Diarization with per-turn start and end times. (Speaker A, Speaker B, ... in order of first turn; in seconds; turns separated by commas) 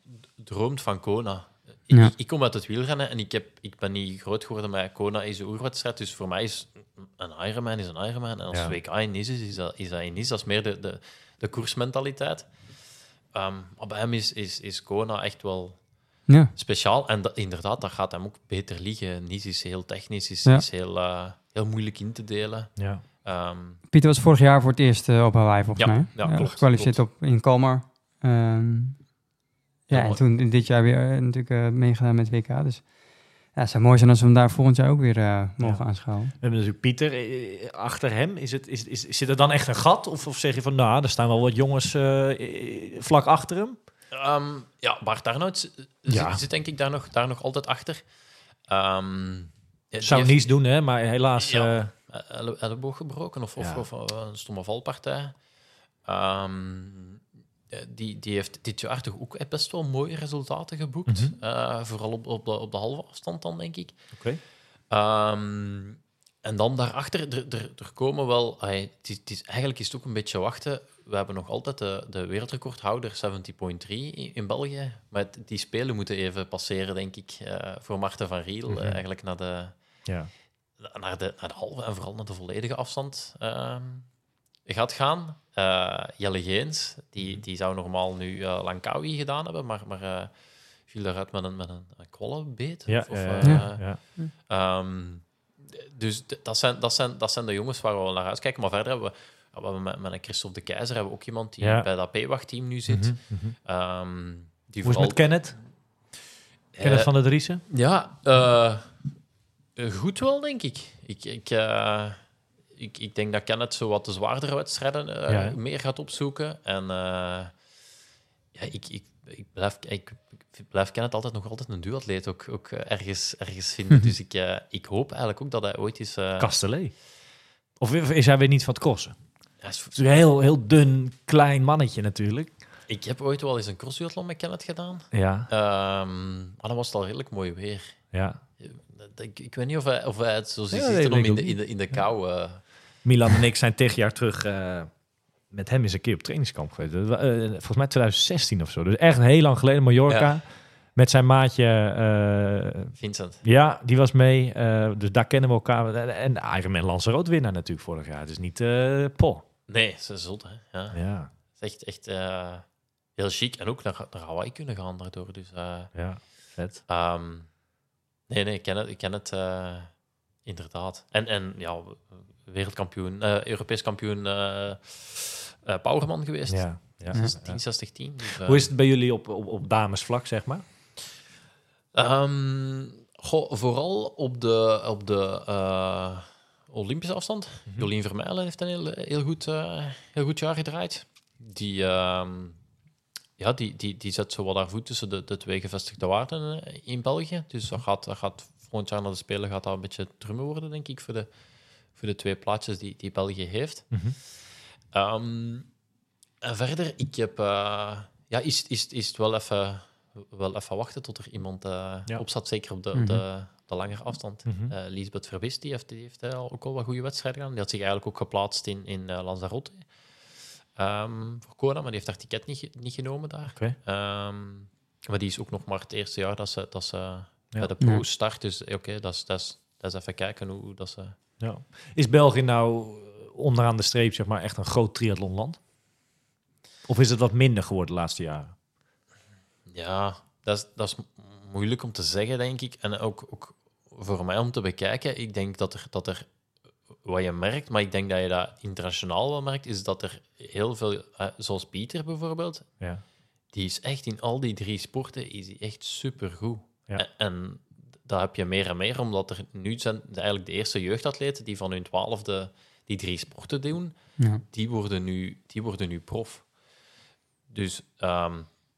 Speaker A: 0.4-12.6, Speaker B: 8.5-8.8, Speaker A: 13.3-15.8, Speaker A: 16.5-23.8, Speaker B: 22.8-23.0, Speaker C: 23.9-29.1, Speaker A: 25.8-27.0, Speaker C: 29.9-36.4, Speaker A: 29.9-30.2, Speaker B: 35.6-43.8, Speaker A: 44.1-48.0, Speaker B: 46.1-46.4, Speaker A: 48.7-50.5, Speaker B: 50.0-51.9, Speaker A: 51.4-55.4, Speaker B: 53.6-53.9, Speaker A: 56.0-64.1, Speaker B: 61.1-61.4, Speaker B: 64.1-64.4, Speaker A: 64.9-79.8, Speaker B: 78.7-79.0, Speaker A: 80.8-84.1, Speaker A: 84.7-90.3, Speaker A: 90.9-105.6, Speaker B: 92.9-94.0, Speaker C: 93.4-94.3, Speaker B: 101.6-101.9, Speaker B: 102.9-103.6, Speaker B: 104.8-105.6, Speaker A: 106.7-107.1, Speaker B: 106.8-107.6, Speaker A: 107.7-109.1, Speaker A: 109.8-117.6, Speaker B: 115.3-115.6, Speaker A: 118.5-126.5, Speaker B: 126.4-127.0, Speaker B: 127.8-129.2, Speaker A: 129.6-130.0, Speaker B: 129.9-132.5, Speaker A: 132.9-142.6, Speaker B: 135.1-135.5, Speaker B: 138.1-138.4, Speaker B: 140.7-141.9, Speaker B: 143.0-144.9, Speaker B: 145.5-159.4, Speaker A: 150.1-150.3, Speaker A: 153.0-153.4, Speaker A: 159.7-161.0, Speaker B: 160.9-161.3, Speaker A: 161.5-165.9, Speaker B: 165.9-166.8, Speaker A: 166.9-167.5, Speaker A: 168.3-178.7, Speaker B: 176.5-177.6, Speaker B: 178.4-180.6, Speaker A: 181.9-192.6, Speaker A: 193.4-201.3, Speaker A: 201.9-204.1, Speaker B: 203.9-204.2, Speaker A: 204.9-205.7, Speaker A: 206.4-219.9, Speaker C: 212.9-213.2, Speaker B: 214.4-214.7, Speaker A: 220.8-231.2, Speaker B: 231.4-235.6, Speaker B: 236.9-238.5, Speaker A: 239.7-246.3, Speaker A: 247.0-252.7, Speaker A: 253.5-266.5, Speaker C: 264.2-264.4, Speaker A: 267.5-268.5